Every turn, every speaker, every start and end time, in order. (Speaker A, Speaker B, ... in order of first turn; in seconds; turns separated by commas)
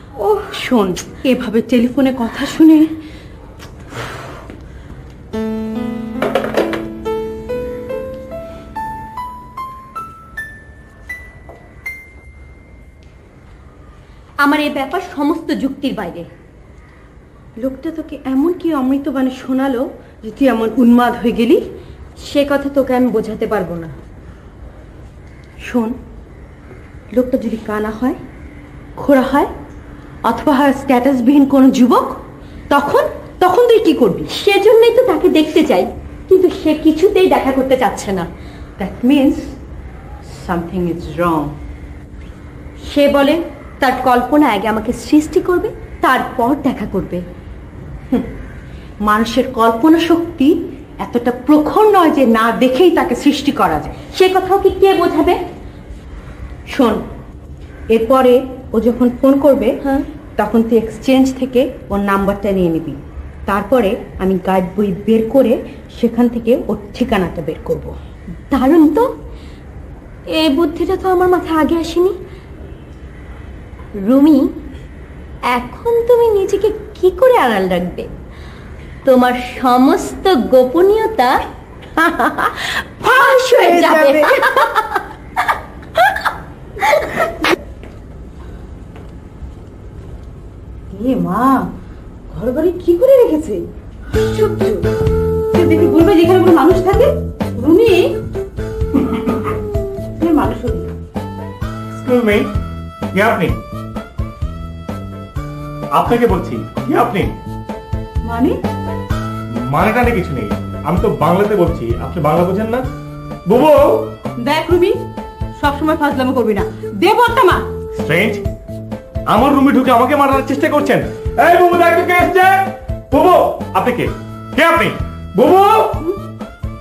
Speaker A: 0.6-2.8, Speaker B: 14.4-16.3, Speaker A: 17.6-21.6, Speaker B: 22.2-23.9, Speaker A: 25.7-25.9, Speaker A: 27.1-28.2, Speaker A: 29.0-29.5, Speaker A: 30.3-32.1, Speaker A: 32.7-34.3, Speaker B: 34.3-38.3, Speaker A: 38.8-39.4, Speaker A: 40.5-41.5, Speaker B: 42.9-47.2, Speaker A: 49.1-50.5, Speaker A: 51.0-53.9, Speaker B: 54.2-55.4, Speaker A: 56.7-57.0, Speaker A: 57.9-59.7, Speaker A: 60.4-63.0, Speaker A: 63.5-67.9, Speaker B: 68.5-69.1, Speaker B: 70.3-72.2, Speaker B: 74.0-74.5, Speaker B: 75.5-78.1, Speaker B: 79.0-81.3, Speaker A: 82.0-84.6, Speaker B: 83.0-84.7, Speaker B: 86.8-87.3, Speaker A: 90.9-91.7, Speaker A: 92.3-94.9, Speaker A: 95.5-98.2, Speaker A: 100.2-100.9, Speaker C: 101.9-102.5, Speaker C: 103.1-103.6, Speaker C: 106.0-107.3, Speaker A: 108.2-108.6, Speaker C: 109.5-112.9, Speaker C: 113.5-114.1, Speaker A: 114.4-115.0, Speaker A: 115.6-117.7, Speaker C: 118.0-118.4, Speaker C: 119.3-126.0